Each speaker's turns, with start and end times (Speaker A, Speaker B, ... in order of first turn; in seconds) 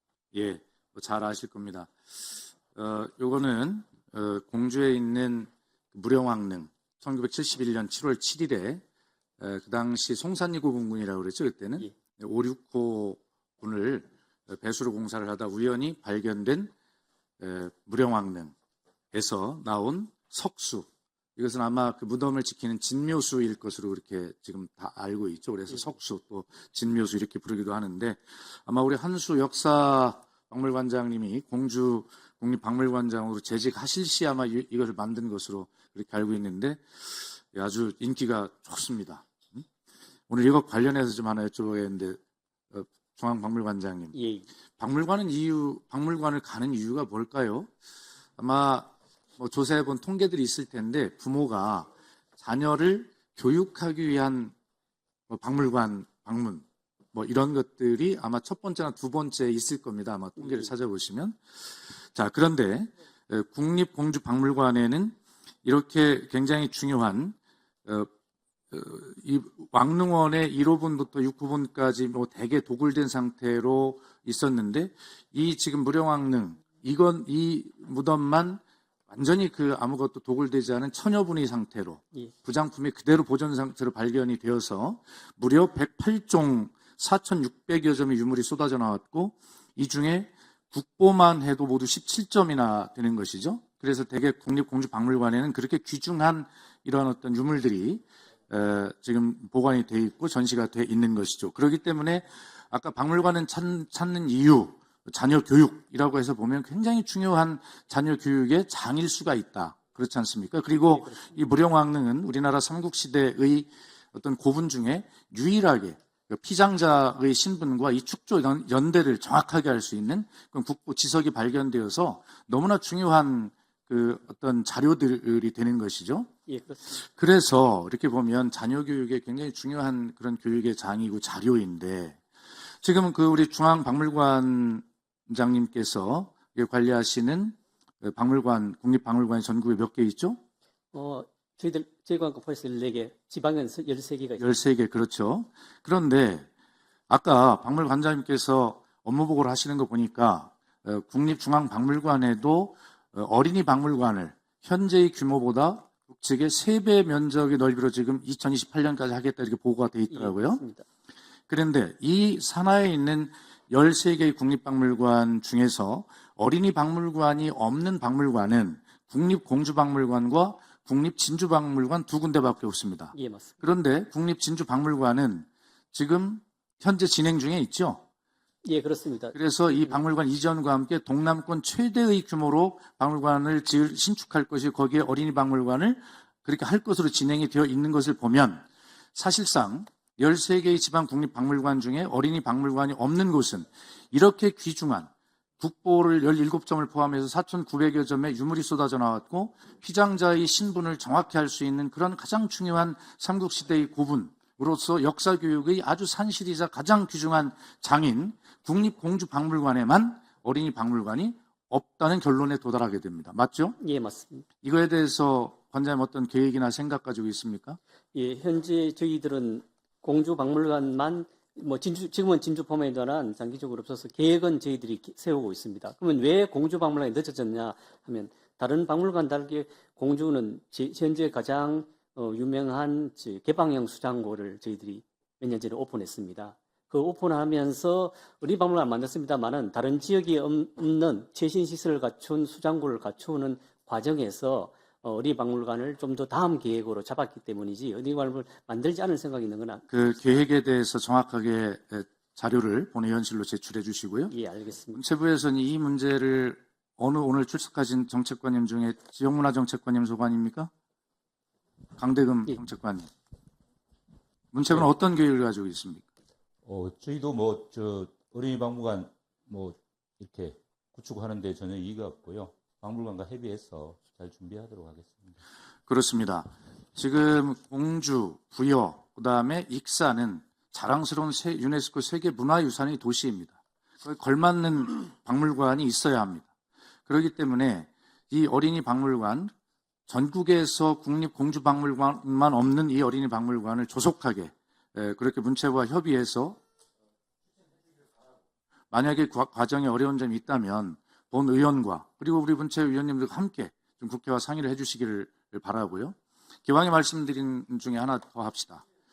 Speaker A: 0.3-1.9, 2.7-8.8, 9.4-16.7, 17.4-18.5, 19.1-39.6, 40.3-42.2, 42.7-44.1, 44.8-47.7, 48.4-54.5, 55.3-61.4, 61.9-67.3, 68.7-126.3, 127.0-132.2, 132.8-140.4, 144.4-146.5, 147.1-160.6, 161.5-178.0, 179.3-213.8, 214.6-217.8, 249.9-254.3, 254.9-260.7, 262.0-263.1, 264.5-266.1, 275.9-286.5, 287.1-289.5, 290.1-296.6, 298.9-306.1, 306.6-308.8
Speaker B: 44.1-44.5, 60.4-60.7, 110.8-111.4, 126.5-127.0, 140.9-144.6, 160.1-160.8, 173.1-173.5, 178.6-180.0, 213.8-214.4, 218.1-250.4, 254.3-255.0
Speaker C: 266.6-275.4